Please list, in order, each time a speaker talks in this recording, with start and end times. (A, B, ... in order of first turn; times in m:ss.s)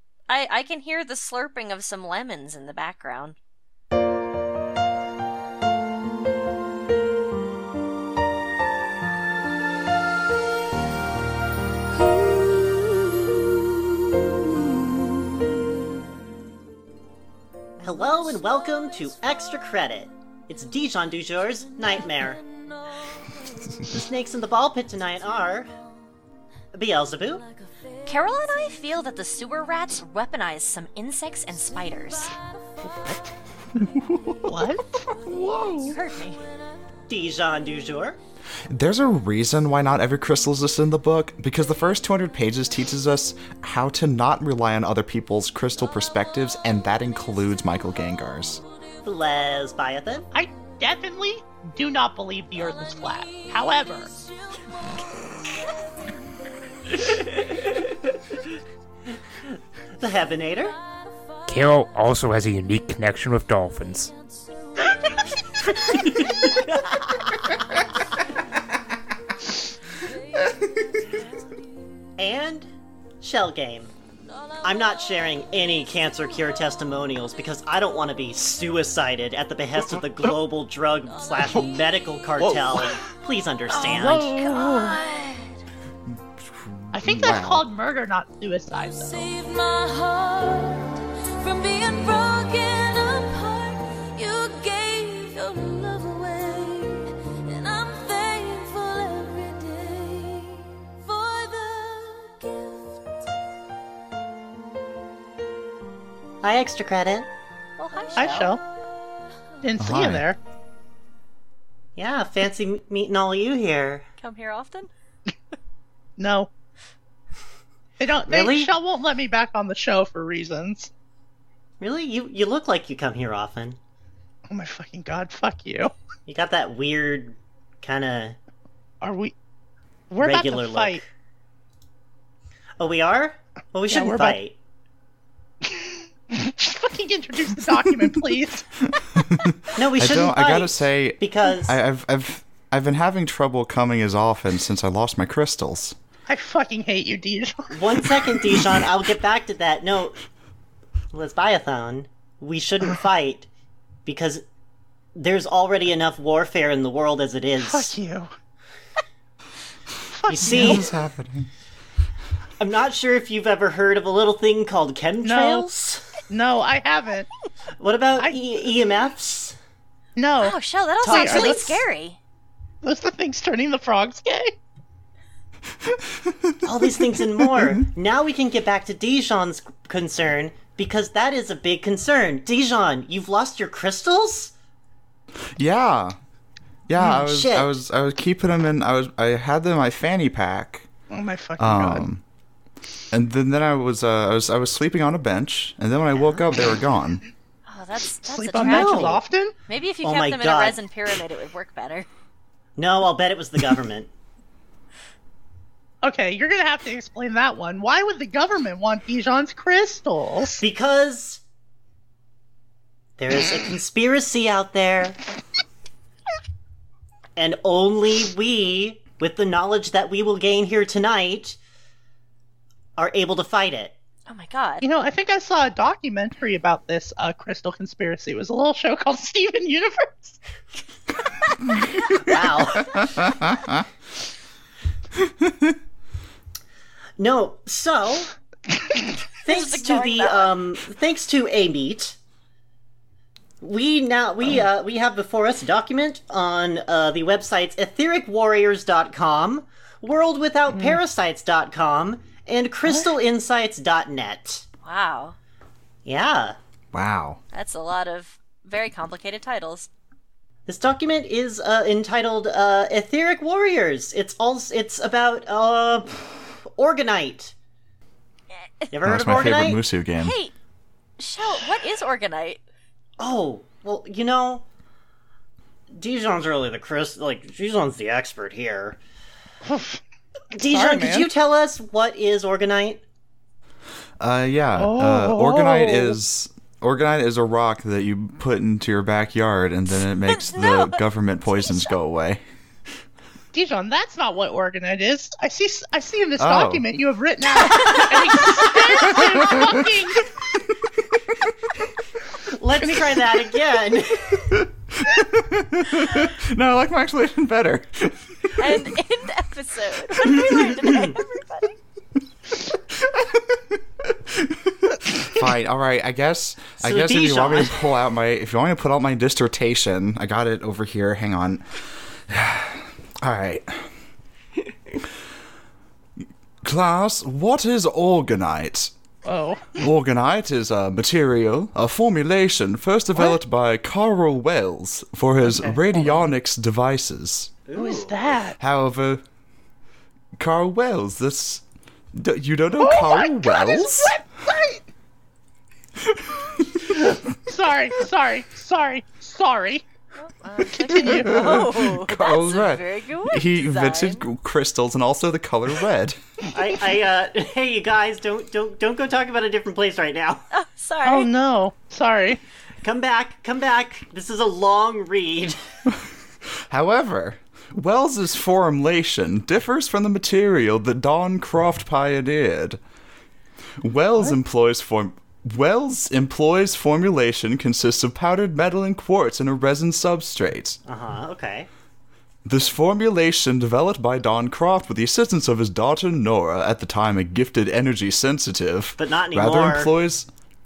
0:00.3-0:03.4 A
0:12.5-0:13.0 B
0:17.8-0:22.4 C
0:22.5-0:23.9 B
0:23.8-0:25.7 C
0:26.7-0:27.4 C
0:28.0-0:28.8 B
0:28.0-0:32.3 A
0:31.6-0:32.8 B
0:32.8-0:33.3 D
0:33.8-0:36.0 E
0:34.0-0:36.4 B
0:34.4-0:35.0 D
0:35.9-0:36.4 A
0:37.1-0:38.2 C
0:38.7-0:48.6 E
0:49.0-0:50.3 C
0:50.3-0:54.1 D
0:52.7-0:54.0 B
1:00.0-1:00.8 C
1:01.5-1:04.1 F
1:05.9-1:07.3 C
1:12.2-1:12.7 C
1:13.2-1:13.9 C
1:14.6-1:24.3 C
1:22.4-1:23.0 D
1:23.7-1:25.2 A
1:23.8-1:25.0 D
1:24.2-1:25.4 B
1:26.4-1:27.6 E
1:26.9-1:29.3 D
1:28.8-1:43.0 B
1:46.4-1:47.3 C
1:47.8-1:48.6 A
1:48.0-1:48.6 B
1:48.1-1:48.6 D
1:49.6-1:50.4 D
1:49.8-1:50.2 E
1:52.0-1:54.0 C
1:54.2-1:54.9 A
1:56.2-1:56.5 D
1:58.0-2:00.9 D
1:58.3-1:58.7 C
2:01.8-2:03.8 C
2:04.5-2:05.9 D
2:06.3-2:08.4 C
2:09.0-2:09.3 D
2:10.1-2:11.0 D
2:10.2-2:11.0 C
2:12.8-2:14.6 C
2:13.9-2:14.4 D
2:15.7-2:18.6 D
2:19.0-2:26.0 E
2:19.7-2:21.8 C
2:26.3-2:27.9 D
2:27.7-2:30.2 C
2:31.1-2:33.5 C
2:34.0-2:34.4 C
2:35.2-2:37.9 C
2:37.6-2:38.3 D
2:40.1-2:40.8 D
2:40.3-2:40.9 C
2:40.4-2:41.5 E
2:42.6-2:46.1 C
2:45.2-2:45.6 D
2:46.3-2:47.3 D
2:47.8-2:49.6 C
2:50.2-2:51.8 D
2:50.4-2:52.2 A
2:51.0-2:51.8 C
2:52.8-2:54.5 D
2:55.9-2:56.6 E
2:56.6-3:04.5 C
3:05.6-3:06.1 E
3:06.9-3:10.9 E
3:07.1-3:07.7 C
3:11.1-3:12.0 D
3:11.6-3:12.2 E
3:13.1-3:17.2 E
3:17.7-3:22.1 A
3:18.2-3:19.6 D
3:18.6-3:19.2 C
3:20.0-3:20.8 C
3:22.8-3:24.1 C
3:26.0-3:30.6 D
3:30.6-3:31.4 C
3:33.2-3:35.2 C
3:37.4-3:41.6 C
3:43.0-3:43.9 C
3:44.3-3:44.8 A
3:44.8-3:50.4 D
3:51.7-3:53.8 E
3:52.2-3:53.1 C
3:55.2-3:55.7 E
3:57.2-3:58.3 C
3:59.4-4:02.2 C
3:59.4-4:00.5 A
4:03.6-4:14.6 C
4:10.7-4:11.0 D
4:12.8-4:13.1 D
4:14.8-4:15.4 A
4:16.0-4:16.6 C
4:16.9-4:17.4 E
4:17.5-4:19.9 A
4:20.6-4:27.5 C
4:28.5-4:29.4 A
4:28.9-4:29.8 C
4:29.0-4:30.4 E
4:30.2-4:30.5 A
4:31.2-4:32.6 A
4:33.2-4:34.6 C
4:35.9-4:39.0 C
4:39.6-4:40.0 D
4:40.5-4:43.0 C
4:40.5-4:41.3 D
4:44.2-4:52.4 E
4:44.8-4:46.2 D
4:50.3-4:51.0 A
4:51.5-4:51.9 A
4:53.5-5:00.3 D
4:56.4-4:56.9 E
4:59.3-4:59.9 E
5:02.5-5:04.5 C
5:04.5-5:08.8 E
5:08.6-5:11.8 A
5:10.4-5:11.1 C
5:12.9-5:21.6 E
5:16.8-5:17.8 C
5:22.3-5:23.9 E
5:26.6-5:28.9 E
5:29.2-5:29.8 D
5:29.8-5:37.5 E
5:35.4-5:36.2 D
5:37.6-5:38.3 C
5:37.7-5:38.6 D
5:38.6-5:39.2 E
5:40.4-5:44.2 E
5:42.8-5:44.8 D
5:46.2-5:46.9 E
5:47.1-5:49.8 D
5:50.2-5:54.2 A
5:50.7-5:51.4 D
5:51.0-5:56.2 E
5:56.5-6:00.5 C
6:00.5-6:01.3 A
6:01.0-6:02.4 D
6:02.8-6:05.6 C
6:06.7-6:12.8 E
6:13.8-6:20.8 E
6:20.8-6:21.7 C
6:22.4-6:30.3 E
6:29.0-6:29.9 C